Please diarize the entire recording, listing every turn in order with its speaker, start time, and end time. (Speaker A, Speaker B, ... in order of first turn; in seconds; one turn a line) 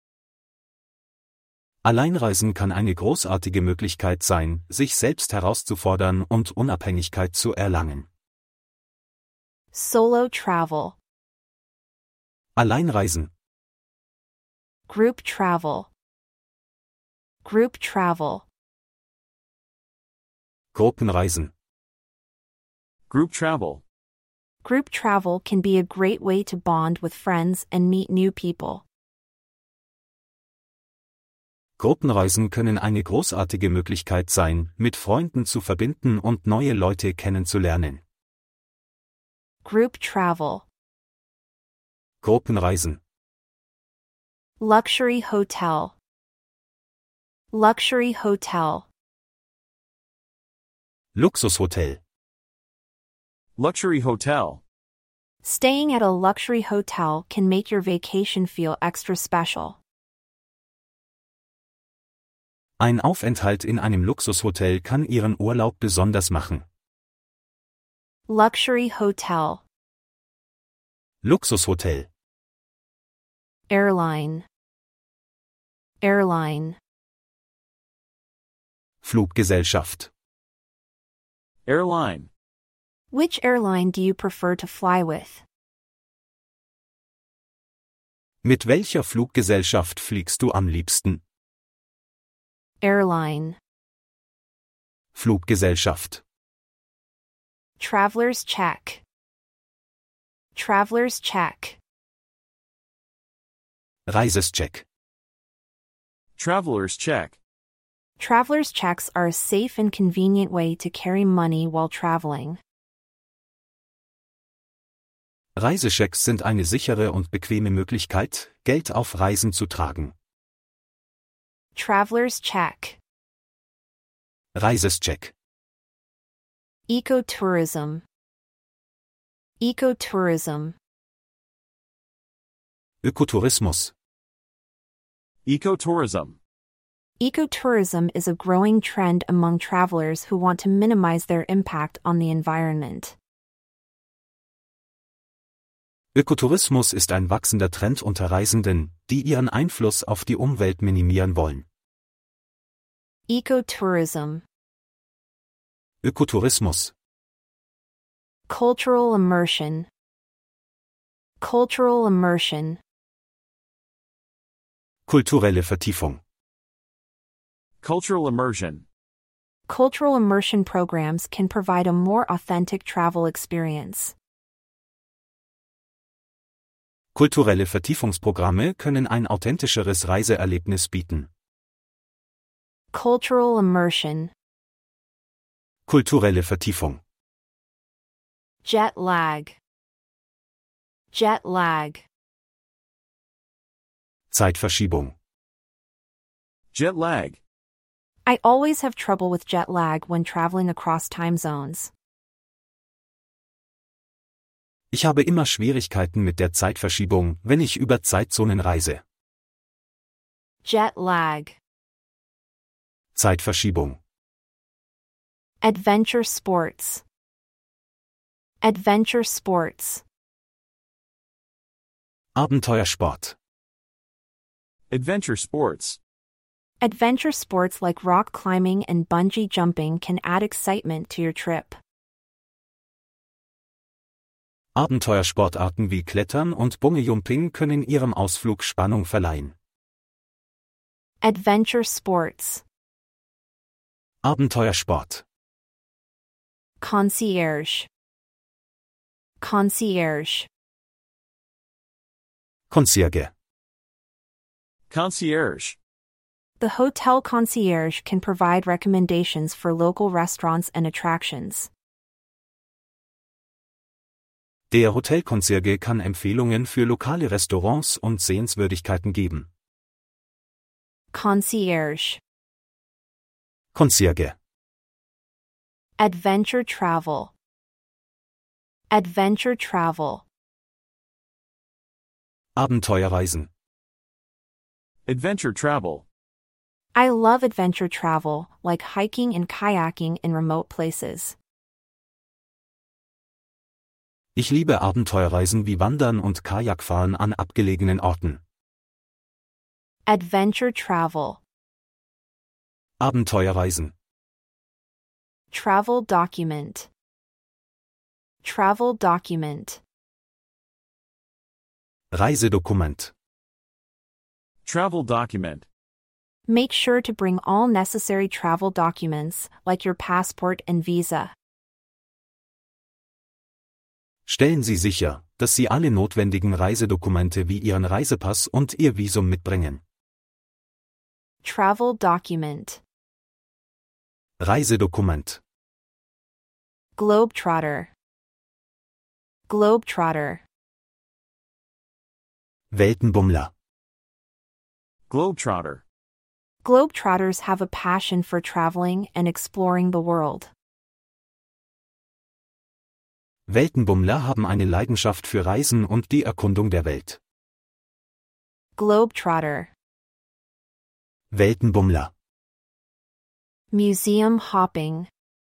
Speaker A: 1.8-8.1
Speaker B: 9.7-11.0
Speaker A: 12.6-13.3
Speaker B: 14.9-15.9
Speaker B: 17.4-18.4
Speaker A: 20.7-21.5
Speaker C: 23.1-23.8
Speaker B: 24.6-28.8
Speaker A: 31.8-38.0
Speaker B: 39.6-40.7
Speaker A: 42.2-43.0
Speaker B: 44.6-46.0
Speaker B: 47.5-48.9
Speaker A: 51.1-52.0
Speaker C: 53.6-54.6
Speaker B: 55.4-59.8
Speaker A: 62.8-66.7
Speaker B: 68.3-69.6
Speaker A: 71.2-72.1
Speaker B: 73.7-74.5
Speaker B: 76.0-76.8
Speaker A: 79.0-80.1
Speaker C: 81.7-82.3
Speaker B: 83.1-85.4
Speaker A: 88.4-91.2
Speaker B: 92.8-93.6
Speaker A: 95.2-96.2
Speaker B: 97.8-99.0
Speaker B: 100.5-101.8
Speaker A: 104.1-104.8
Speaker C: 106.4-107.4
Speaker B: 108.2-112.6
Speaker A: 115.6-120.1
Speaker B: 121.8-123.0
Speaker A: 124.5-125.3
Speaker B: 126.9-128.0
Speaker B: 129.6-130.8
Speaker A: 133.0-133.9
Speaker C: 135.5-136.4
Speaker B: 137.2-143.2
Speaker A: 146.1-151.7
Speaker B: 153.3-154.4
Speaker A: 156.0-156.9
Speaker B: 158.5-159.9
Speaker B: 161.4-162.8
Speaker A: 165.1-166.2
Speaker C: 167.8-168.8
Speaker B: 169.7-174.1
Speaker A: 177.2-181.3
Speaker B: 182.9-184.3
Speaker A: 185.9-187.0
Speaker B: 188.6-189.6
Speaker B: 191.1-192.1
Speaker A: 194.3-195.1
Speaker C: 196.7-197.4
Speaker B: 198.3-201.9
Speaker A: 204.9-209.0
Speaker B: 210.6-211.6
Speaker A: 213.2-214.0
Speaker B: 215.6-217.0
Speaker B: 218.6-220.0
Speaker A: 222.4-223.3
Speaker C: 224.9-226.0
Speaker B: 226.8-231.8
Speaker A: 234.8-239.5
Speaker B: 241.2-242.6
Speaker A: 244.2-245.2
Speaker B: 246.8-247.9
Speaker B: 249.4-250.5
Speaker A: 252.7-253.3
Speaker C: 254.9-255.8
Speaker B: 256.6-261.7
Speaker A: 264.7-269.5
Speaker B: 271.1-272.2
Speaker A: 273.7-274.4
Speaker B: 276.0-277.3
Speaker B: 278.9-280.2
Speaker A: 282.6-283.5
Speaker C: 285.1-286.1
Speaker B: 286.9-291.4
Speaker A: 294.4-298.4
Speaker B: 300.1-301.4
Speaker A: 303.0-303.9
Speaker B: 305.5-306.9
Speaker B: 308.4-309.8
Speaker A: 312.1-313.1
Speaker C: 314.6-315.7
Speaker B: 316.5-321.3
Speaker A: 324.3-329.8
Speaker B: 331.4-332.8
Speaker A: 334.4-335.4
Speaker B: 337.0-337.9
Speaker B: 339.5-340.4
Speaker A: 342.7-343.5
Speaker C: 345.1-345.8
Speaker B: 346.6-350.5
Speaker A: 353.5-357.2
Speaker B: 358.8-359.7
Speaker A: 361.3-362.1
Speaker B: 363.7-365.1